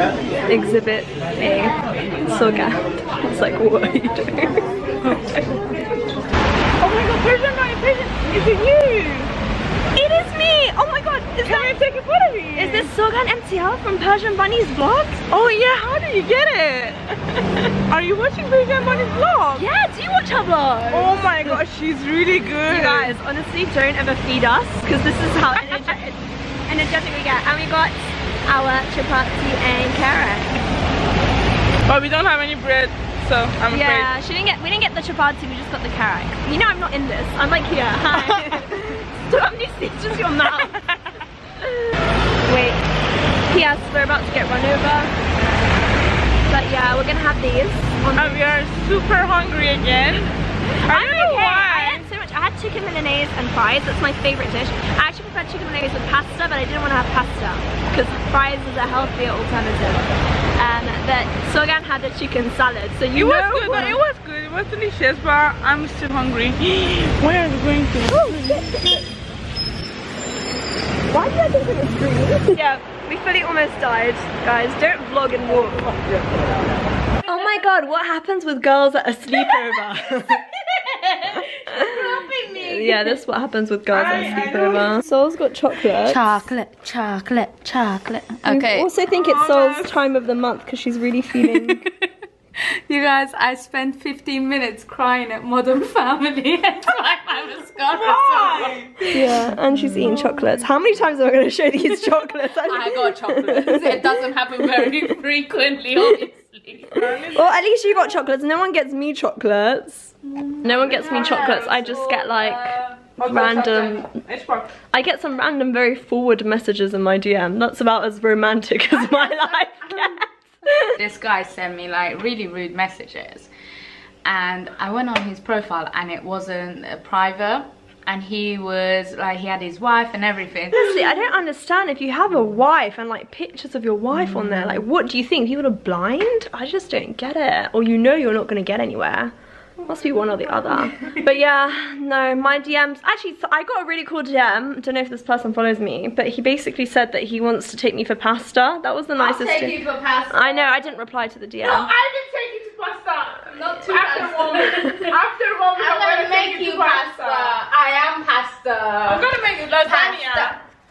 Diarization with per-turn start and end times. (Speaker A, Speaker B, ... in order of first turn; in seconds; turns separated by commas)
Speaker A: 0.5-5.3, Speaker B: 6.8-9.3, Speaker A: 9.9-11.9, Speaker B: 11.4-12.9, Speaker A: 12.5-15.3, Speaker B: 15.3-16.9, Speaker A: 17.4-17.7, Speaker B: 17.9-19.6, Speaker A: 19.5-21.6, Speaker B: 20.9-23.2, Speaker A: 22.7-30.6, Speaker B: 25.5-26.0, Speaker B: 31.9-34.1, Speaker A: 33.7-40.7, Speaker B: 40.6-41.0, Speaker A: 42.5-42.8, Speaker A: 43.5-45.1, Speaker A: 46.5-48.4, Speaker B: 48.1-52.1, Speaker A: 50.8-64.0, Speaker B: 63.1-69.0, Speaker A: 68.1-69.0, Speaker A: 71.1-75.9, Speaker A: 77.3-80.4, Speaker C: 80.7-83.2, Speaker A: 82.6-86.5, Speaker B: 84.0-84.8, Speaker C: 86.0-88.9, Speaker A: 88.5-91.8, Speaker B: 89.2-90.0, Speaker C: 92.9-99.4, Speaker B: 98.0-99.1, Speaker A: 99.1-104.1, Speaker C: 102.7-107.0, Speaker B: 106.9-107.5, Speaker A: 107.2-114.1, Speaker C: 110.7-111.6, Speaker B: 110.8-112.3, Speaker C: 112.4-112.8, Speaker B: 113.2-114.7, Speaker A: 114.9-121.0, Speaker C: 121.0-123.5, Speaker C: 124.2-131.0, Speaker A: 130.7-149.8, Speaker C: 149.2-150.7, Speaker A: 150.3-151.9, Speaker C: 151.6-160.6, Speaker B: 153.8-157.6, Speaker B: 159.1-160.6